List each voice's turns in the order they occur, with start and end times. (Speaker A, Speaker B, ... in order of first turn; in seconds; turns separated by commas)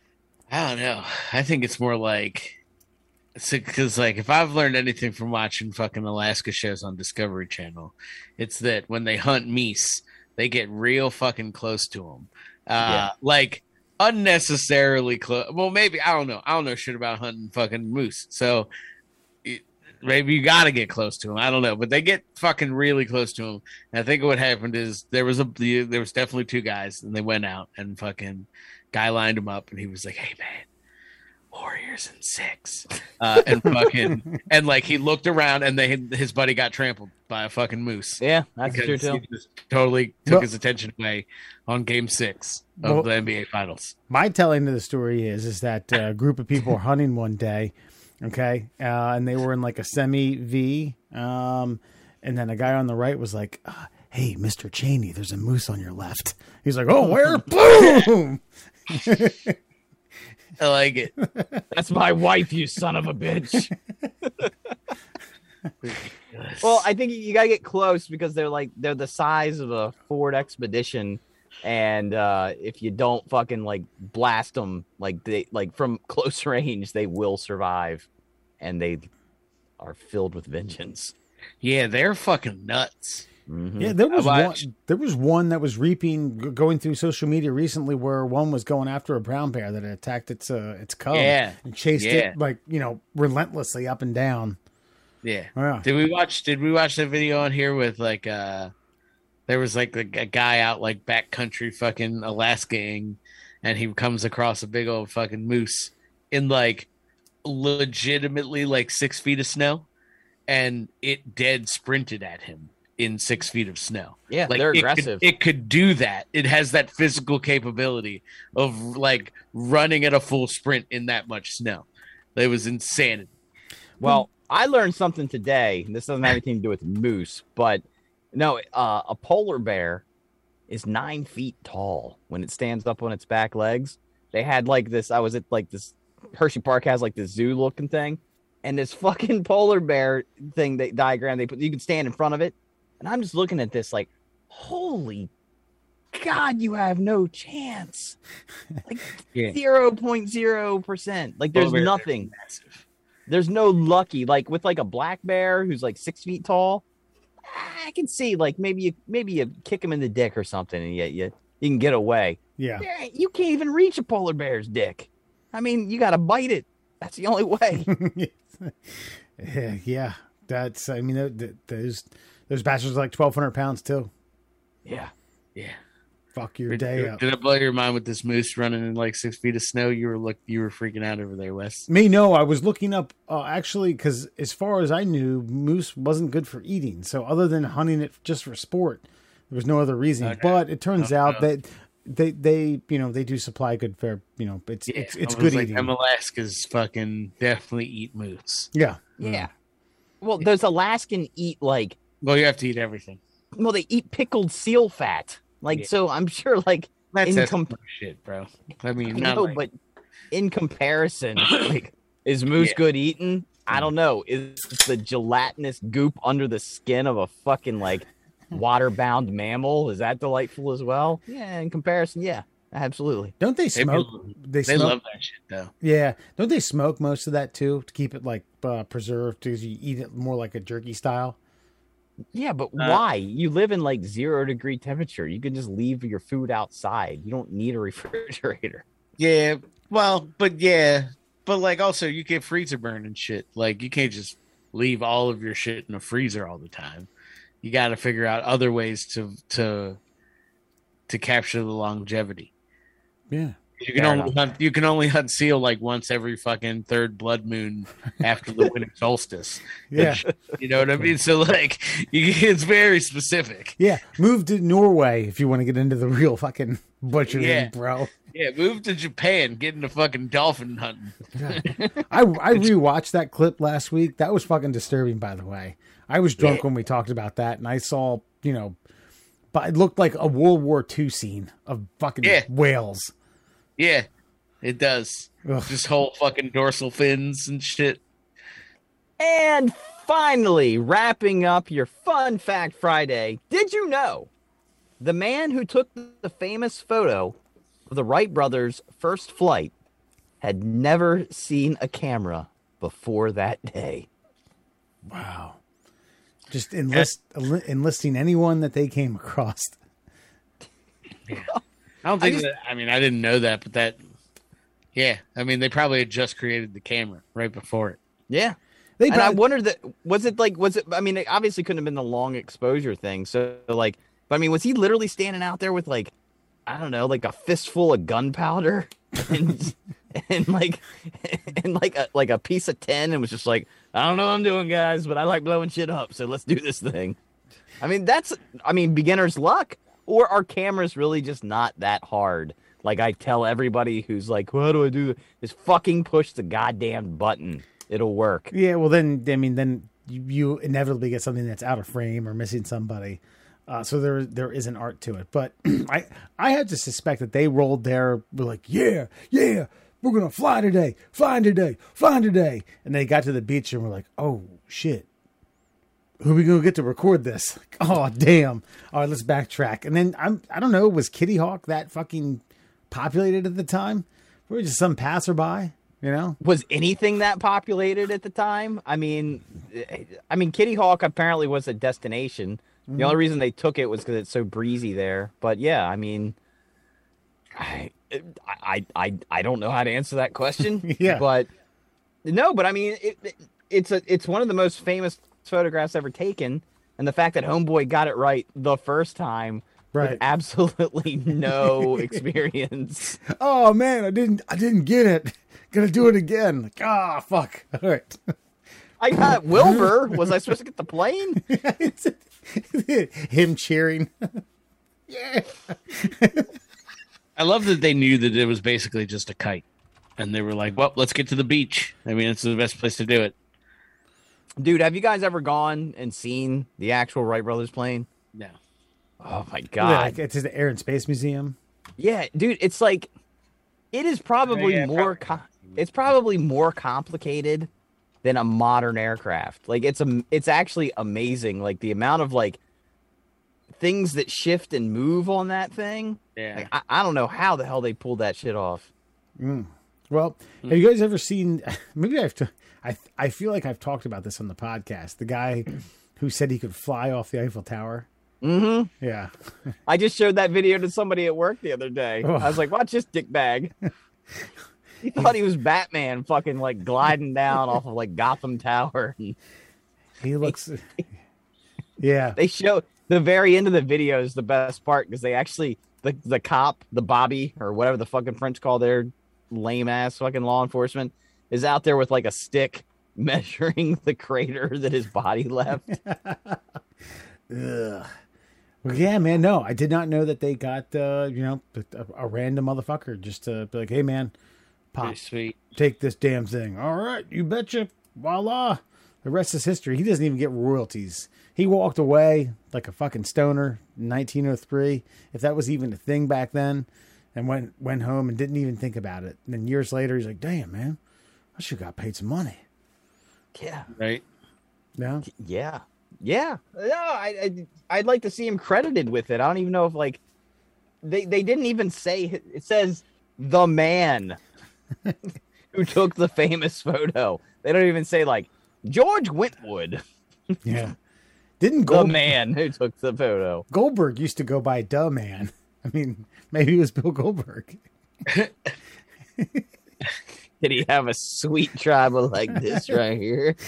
Speaker A: 0.5-2.5, Speaker A: 3.4-18.7, Speaker B: 12.8-13.1, Speaker A: 19.4-30.6, Speaker A: 31.5-43.9, Speaker B: 38.2-39.2, Speaker C: 42.8-43.1, Speaker C: 44.1-59.6, Speaker A: 60.6-61.1, Speaker C: 61.2-61.6, Speaker B: 61.7-63.7, Speaker B: 64.2-64.5, Speaker A: 65.8-66.8, Speaker B: 66.6-78.1, Speaker B: 78.6-79.1, Speaker B: 79.8-81.1, Speaker A: 81.6-83.2, Speaker B: 83.5-84.0, Speaker C: 83.8-94.6, Speaker A: 84.1-84.6, Speaker A: 91.1-92.3, Speaker A: 95.2-98.7, Speaker C: 95.5-95.8, Speaker A: 99.5-106.9, Speaker A: 107.4-109.8, Speaker A: 110.5-123.3, Speaker B: 114.3-115.2, Speaker B: 124.0-130.0, Speaker B: 130.7-145.3, Speaker B: 146.1-148.2, Speaker B: 148.8-152.3, Speaker A: 151.5-152.8, Speaker B: 153.3-156.8, Speaker B: 157.5-167.9, Speaker C: 162.6-162.8, Speaker C: 167.9-174.1, Speaker B: 174.8-175.1, Speaker C: 176.3-177.2, Speaker A: 176.7-181.9, Speaker C: 181.9-195.9, Speaker A: 190.2-191.4, Speaker A: 194.9-198.7, Speaker C: 198.7-199.5, Speaker B: 199.2-199.5, Speaker B: 200.2-202.0, Speaker A: 202.2-203.2, Speaker B: 203.6-207.7, Speaker A: 207.1-209.6, Speaker B: 209.1-209.7, Speaker B: 210.3-223.3, Speaker A: 211.4-211.7, Speaker C: 223.4-224.9, Speaker A: 223.7-225.7, Speaker C: 225.8-231.4, Speaker B: 232.3-238.8, Speaker A: 232.8-233.0, Speaker A: 239.2-247.1, Speaker A: 247.6-250.0, Speaker A: 251.1-252.5, Speaker C: 253.3-253.6, Speaker A: 253.8-263.8, Speaker B: 253.9-254.3, Speaker C: 259.9-260.2, Speaker C: 263.8-268.1, Speaker A: 267.3-267.7, Speaker A: 268.3-271.2, Speaker C: 271.4-278.8, Speaker B: 271.5-272.0, Speaker C: 279.5-283.1, Speaker A: 283.8-284.1, Speaker A: 284.6-288.0, Speaker C: 285.4-285.8, Speaker B: 289.2-294.3, Speaker B: 295.0-297.4, Speaker B: 297.9-299.7, Speaker B: 300.4-304.1, Speaker C: 305.1-305.6, Speaker C: 306.5-309.8, Speaker B: 311.3-311.6, Speaker A: 312.0-314.0, Speaker A: 314.9-318.0, Speaker B: 318.3-318.6, Speaker C: 319.0-319.4, Speaker B: 319.1-326.1, Speaker B: 326.7-337.2, Speaker B: 337.8-348.5, Speaker C: 348.5-365.1, Speaker C: 366.2-376.4, Speaker B: 376.4-386.4, Speaker C: 382.9-383.2, Speaker B: 387.6-391.5, Speaker C: 390.8-391.2, Speaker B: 392.2-403.2, Speaker C: 399.9-400.2, Speaker C: 401.5-402.2, Speaker C: 403.2-408.3, Speaker B: 409.0-411.4, Speaker C: 409.5-410.3, Speaker C: 411.4-414.4, Speaker C: 415.1-416.5, Speaker A: 417.4-419.6, Speaker A: 420.2-423.3, Speaker B: 424.6-428.1, Speaker B: 429.2-430.1, Speaker C: 429.8-431.6, Speaker B: 432.0-433.1, Speaker B: 433.9-437.7, Speaker A: 434.5-436.1, Speaker B: 438.2-442.6, Speaker B: 443.8-448.9, Speaker A: 446.4-446.7, Speaker C: 449.4-458.1, Speaker B: 458.4-458.9, Speaker C: 459.0-459.3, Speaker B: 459.9-463.7, Speaker C: 462.2-462.6, Speaker B: 465.0-469.3, Speaker C: 470.2-470.9, Speaker C: 472.0-472.4, Speaker B: 472.4-485.9, Speaker C: 485.9-486.6, Speaker C: 487.5-488.1, Speaker C: 488.8-494.3, Speaker C: 494.9-495.2, Speaker A: 495.0-495.7, Speaker C: 495.7-511.0, Speaker C: 511.6-512.6, Speaker B: 513.5-513.9, Speaker A: 514.0-514.2, Speaker C: 515.0-515.2, Speaker B: 515.3-520.2, Speaker B: 521.0-524.4, Speaker B: 525.7-530.6, Speaker C: 530.6-530.9, Speaker C: 531.6-532.2, Speaker B: 531.9-533.6, Speaker C: 533.7-537.8, Speaker A: 538.3-538.7, Speaker C: 539.4-539.7, Speaker B: 540.6-543.6, Speaker C: 542.6-543.0